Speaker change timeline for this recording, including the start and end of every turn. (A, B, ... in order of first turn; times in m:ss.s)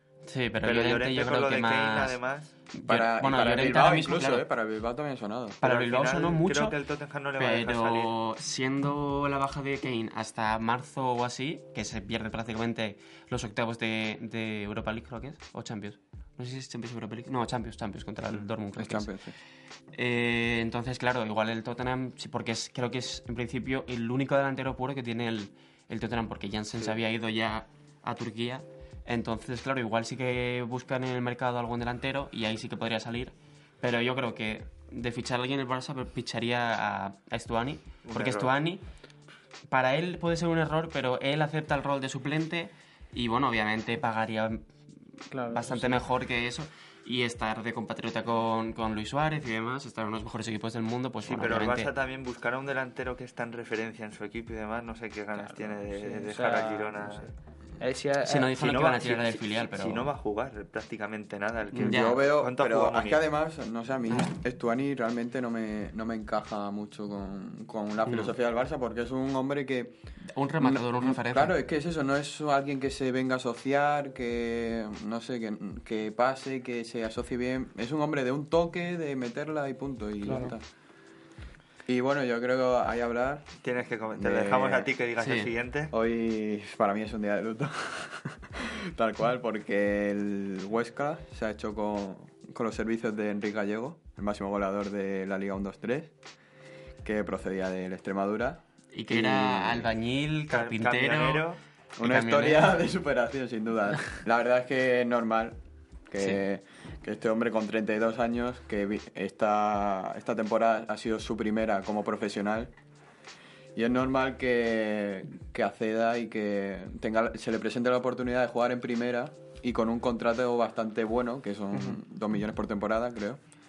0:00.3-0:02.2 A
0:00.6-0:02.5 B
0:02.7-0:04.4 A
0:02.9-0:05.6 C
0:05.6-0:06.8 A
0:05.6-0:08.1 B
0:07.4-0:19.1 A
0:18.8-0:19.4 C
0:19.9-0:38.8 A
0:38.0-0:38.5 B
0:39.7-0:44.6 A
0:45.3-0:46.0 D
0:45.5-0:51.9 A
0:51.2-0:57.3 B
0:55.5-0:57.3 D
0:57.8-0:58.5 D
0:58.2-1:00.1 A
0:58.5-1:03.2 B
1:01.8-1:02.2 A
1:01.8-1:10.0 C
1:08.0-1:08.3 A
1:10.3-1:11.6 A
1:10.6-1:20.6 C
1:20.2-1:20.5 D
1:21.9-1:23.5 C
1:23.6-1:25.9 B
1:24.1-1:24.9 C
1:25.2-1:25.5 A
1:25.9-1:36.1 C
1:37.0-1:39.9 C
1:38.9-1:41.4 A
1:40.5-1:41.6 B
1:42.0-1:45.6 C
1:42.0-1:42.8 A
1:46.1-1:52.7 C
1:53.7-2:03.4 C
2:01.7-2:02.0 A